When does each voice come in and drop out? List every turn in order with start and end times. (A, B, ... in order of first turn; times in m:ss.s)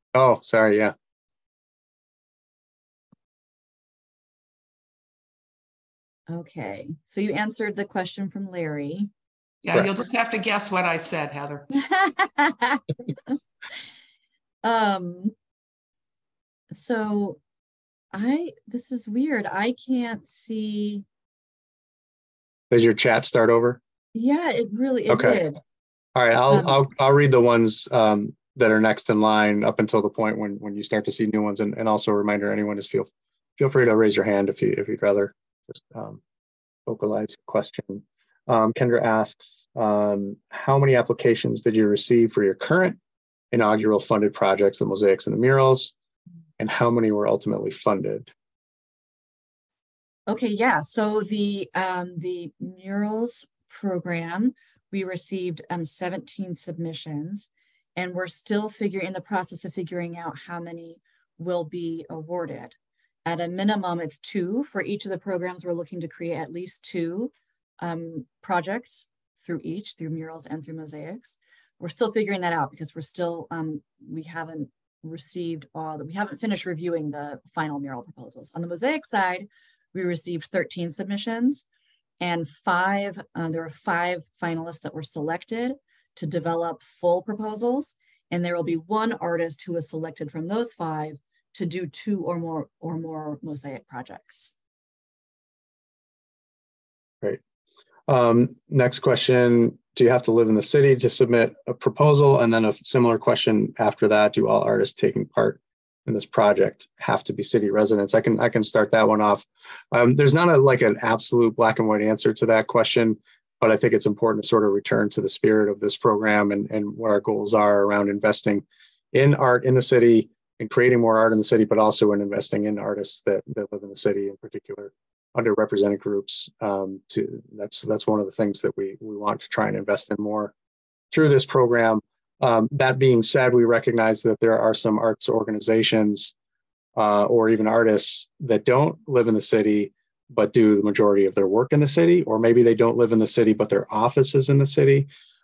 0:00.1-0:00.9 A
0:06.3-0:09.1 B
0:09.6-0:11.8 C
0:11.8-0:12.8 B
0:14.6-0:15.3 B
0:16.7-0:17.4 B
0:18.1-0:21.0 B
0:22.7-0:23.8 A
0:24.1-0:25.6 B
0:25.1-0:25.4 A
0:26.1-0:36.2 A
0:26.5-0:26.8 B
0:36.8-0:43.0 A
0:43.5-0:45.9 A
0:46.6-0:48.3 A
0:50.3-1:21.6 B
1:22.2-1:34.5 B
1:38.1-2:10.5 A
2:11.1-2:16.3 A
2:17.0-2:25.1 A